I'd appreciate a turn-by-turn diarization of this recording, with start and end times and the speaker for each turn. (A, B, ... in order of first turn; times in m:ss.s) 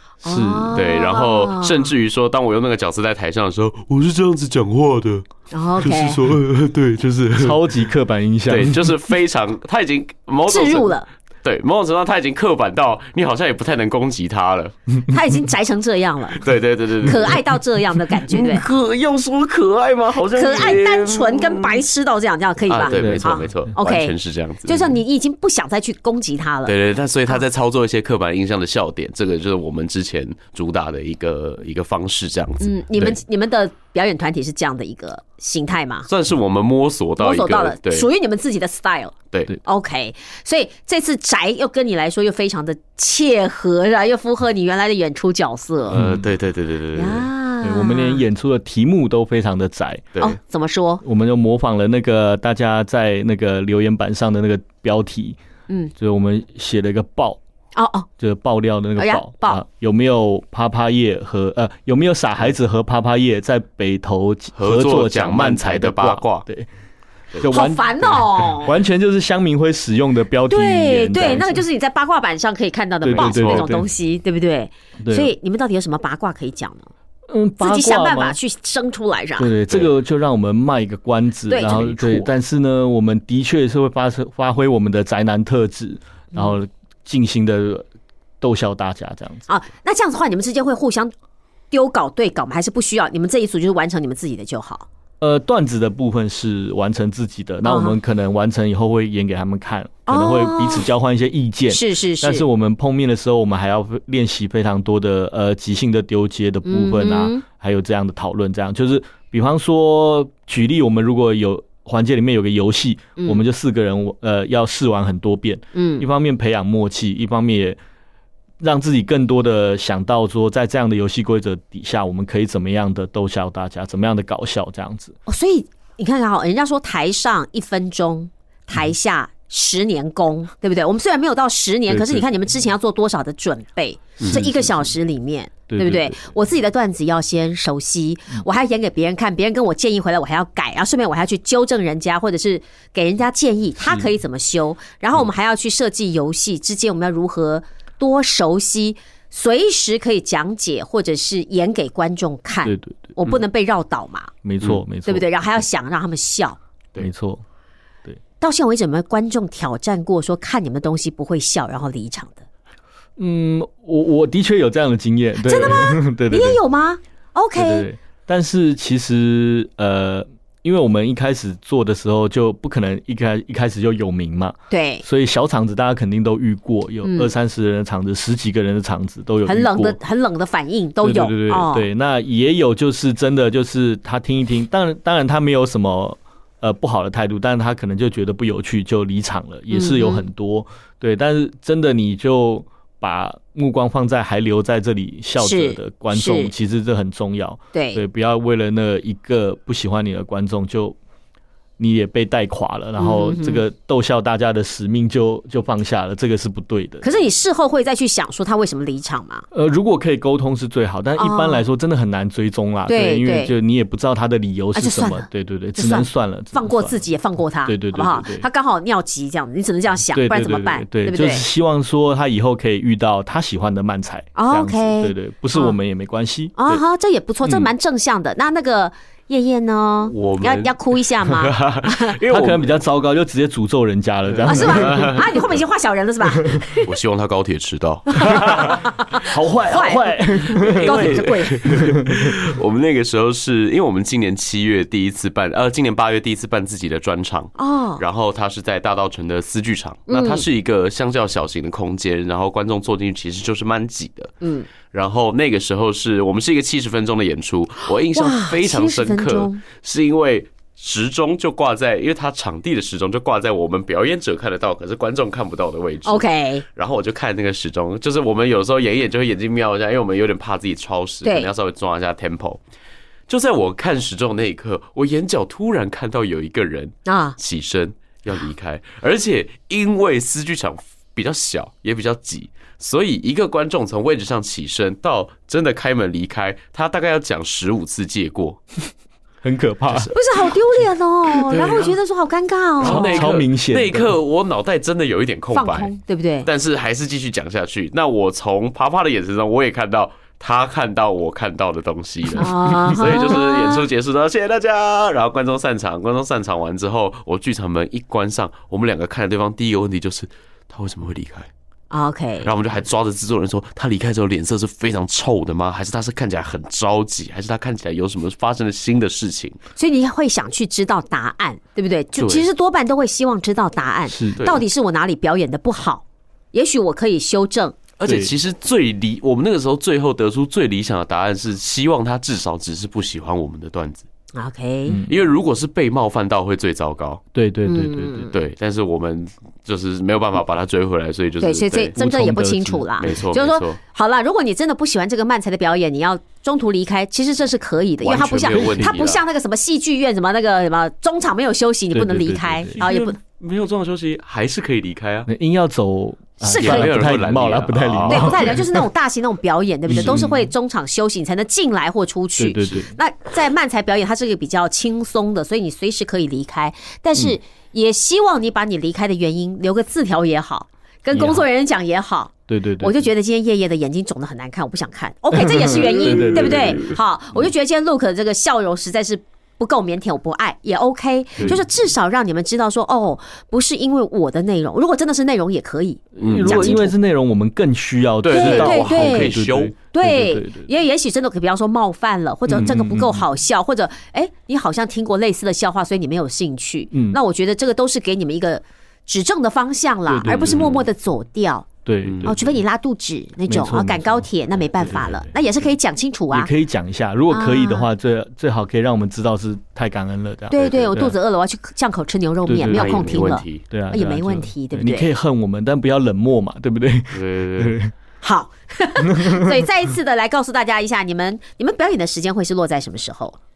0:00.2-0:00.9 A
0:00.2-0:01.9 B
0:00.7-0:07.8 C
0:05.5-0:06.2 B
0:07.4-0:08.9 A
0:08.5-0:14.9 C
0:10.5-0:11.1 B
0:15.1-0:16.4 B
0:16.3-0:17.4 C
0:17.0-0:18.7 B
0:18.3-0:21.8 C
0:20.3-0:24.2 B
0:22.7-0:25.0 C
0:22.9-0:23.5 A
0:24.7-0:26.7 B
0:26.7-0:33.2 C
0:32.6-0:36.1 B
0:36.1-0:38.1 C
0:37.2-0:46.0 B
0:45.9-0:46.2 A
0:45.9-0:47.3 C
0:47.0-0:48.2 B
0:47.6-0:50.1 A
0:50.2-0:51.0 B
0:51.0-0:55.4 A
0:56.0-0:57.4 A
0:57.8-0:58.1 B
0:58.2-1:06.7 A
0:59.0-0:59.6 B
1:04.6-1:06.5 C
1:07.3-1:11.6 A
1:07.5-1:08.8 B
1:10.5-1:16.9 B
1:13.0-1:13.9 A
1:13.1-1:13.7 C
1:15.0-1:15.3 A
1:17.3-1:18.4 A
1:17.6-1:19.5 B
1:19.4-1:27.9 A
1:21.5-1:22.3 B
1:28.4-1:29.4 A
1:29.5-1:31.1 B
1:31.7-1:34.9 B
1:35.2-1:57.8 A
1:37.6-1:38.0 B
1:40.1-1:40.9 B
1:41.7-1:42.4 B
1:46.6-1:47.4 B
1:55.8-1:56.1 B
1:58.6-2:05.2 A
2:05.3-2:34.3 B
2:11.9-2:12.3 A
2:14.2-2:14.9 A
2:15.7-2:16.3 A
2:23.8-2:24.1 A
2:32.6-2:33.2 A
2:34.4-2:35.3 A
2:35.0-2:36.6 B
2:37.0-2:37.4 A
2:38.4-2:42.4 B
2:43.2-2:46.6 A
2:45.4-2:47.9 B
2:47.6-3:00.0 A
2:54.7-2:55.0 B
2:57.0-2:57.3 B
2:59.4-3:01.9 B
3:01.0-3:21.0 A
3:09.7-3:10.2 B
3:15.4-3:16.5 B
3:17.7-3:18.0 B
3:21.8-3:27.1 A
3:23.0-3:23.6 B
3:27.0-3:29.4 B
3:29.5-3:37.0 A
3:31.2-3:31.6 B
3:32.9-3:33.5 B
3:34.8-3:41.4 B
3:37.6-3:38.5 A
3:40.1-3:46.8 A
3:44.4-3:45.8 B
3:46.6-3:52.2 B
3:47.4-3:47.7 A
3:50.1-3:52.7 C
3:52.3-3:55.3 A
3:54.3-3:55.2 C
3:54.4-3:56.9 B
3:56.8-3:58.7 C
3:58.1-4:01.7 B
3:58.3-4:02.3 A
4:00.6-4:14.3 C
4:07.6-4:08.0 B
4:10.1-4:10.4 B
4:14.4-4:14.7 B
4:14.9-4:32.6 C
4:17.9-4:19.6 B
4:26.0-4:26.6 B
4:31.2-4:31.5 B
4:33.3-4:48.6 C
4:37.1-4:37.4 B
4:49.4-4:50.1 A
4:49.9-4:50.1 C
4:50.1-4:53.2 B
4:51.4-4:51.9 C
4:52.8-4:55.9 C
4:52.8-4:54.2 A
4:55.5-4:56.5 B
4:56.4-5:11.5 C
5:02.4-5:03.9 B
5:11.9-5:12.5 B
5:12.4-5:19.6 C
5:19.8-5:27.8 B
5:22.2-5:22.4 C
5:24.1-5:24.4 A
5:24.4-5:24.6 C
5:28.0-5:34.1 C
5:28.0-5:28.3 A
5:34.4-5:35.0 B
5:34.9-5:35.2 A
5:35.1-5:37.2 C
5:37.3-5:38.3 A
5:37.6-5:38.4 B
5:38.3-5:41.9 C
5:41.4-5:53.2 B
5:42.0-5:43.2 A
5:43.0-5:43.8 C
5:48.0-5:49.2 C
5:48.5-5:49.0 A
5:51.9-5:52.9 A
5:52.8-5:55.3 C
5:55.3-5:58.8 A
5:56.4-5:57.1 B
5:56.5-5:58.6 C
5:58.1-6:26.9 B
5:59.9-6:00.5 A
6:02.4-6:02.9 A
6:11.1-6:11.4 A
6:12.5-6:13.0 A
6:15.3-6:17.5 A
6:16.0-6:16.6 C
6:26.2-6:26.9 C
6:26.2-6:30.7 A
6:28.2-6:29.7 C
6:28.3-6:29.4 B
6:29.9-6:41.7 B
6:32.5-6:33.3 A
6:36.9-6:37.2 A
6:40.1-6:40.8 A
6:41.8-6:42.6 A
6:42.0-6:42.3 C
6:42.2-6:46.5 B
6:43.5-6:45.3 A
6:46.3-6:51.2 A
6:47.3-6:47.9 B
6:50.5-6:55.1 B
6:52.5-6:57.9 A
6:52.7-6:53.6 C
6:57.1-6:57.8 C
6:58.2-7:03.4 B
6:59.2-6:59.6 A